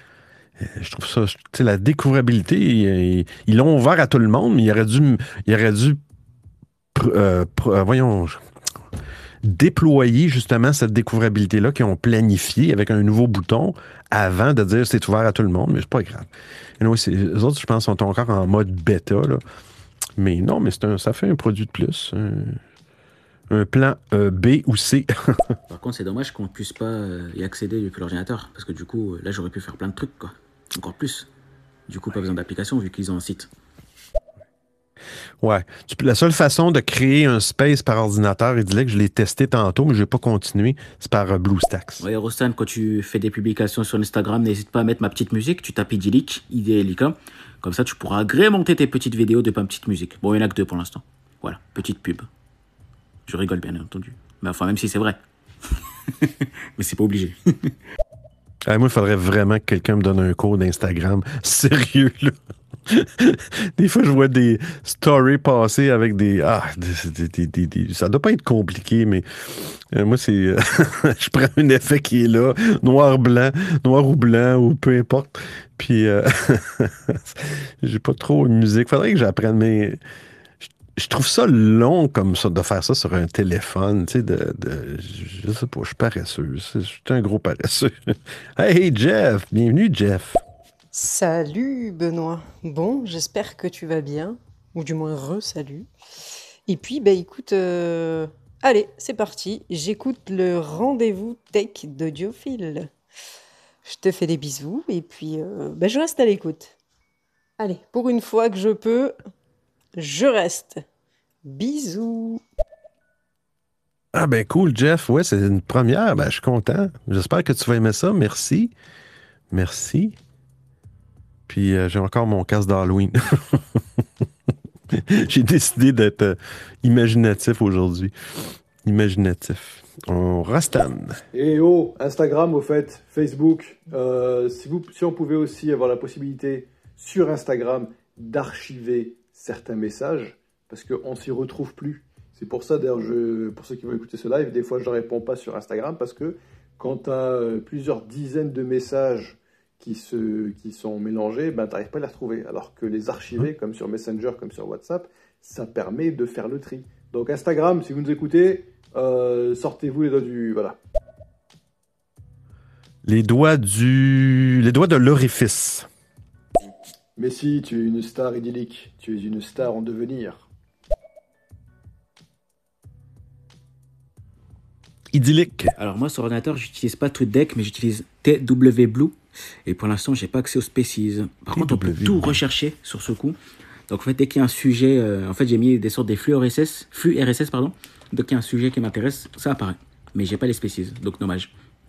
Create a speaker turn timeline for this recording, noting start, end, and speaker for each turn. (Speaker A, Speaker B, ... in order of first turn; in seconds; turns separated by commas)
Speaker A: 0.6-6.0, Speaker A: 6.9-8.4, Speaker A: 9.4-16.3, Speaker A: 16.8-19.4, Speaker A: 20.2-22.6, Speaker A: 23.5-25.6, Speaker B: 25.7-31.3, Speaker B: 31.9-33.5, Speaker A: 35.4-42.0, Speaker B: 42.0-52.3, Speaker B: 53.3-55.2, Speaker B: 55.7-57.7, Speaker A: 58.7-62.4, Speaker A: 62.9-80.0, Speaker A: 80.9-90.4, Speaker C: 90.9-95.9, Speaker C: 96.7-102.9, Speaker C: 103.8-106.7, Speaker C: 107.6-109.2, Speaker C: 110.0-110.8, Speaker C: 111.4-112.4, Speaker A: 114.1-118.7, Speaker A: 119.5-120.2, Speaker A: 121.5-124.0, Speaker A: 124.9-131.2, Speaker D: 131.3-160.8, Speaker A: 163.0-165.9, Speaker D: 167.2-170.5, Speaker A: 175.1-175.7, Speaker B: 175.8-183.3, Speaker A: 181.5-182.4, Speaker B: 183.9-191.5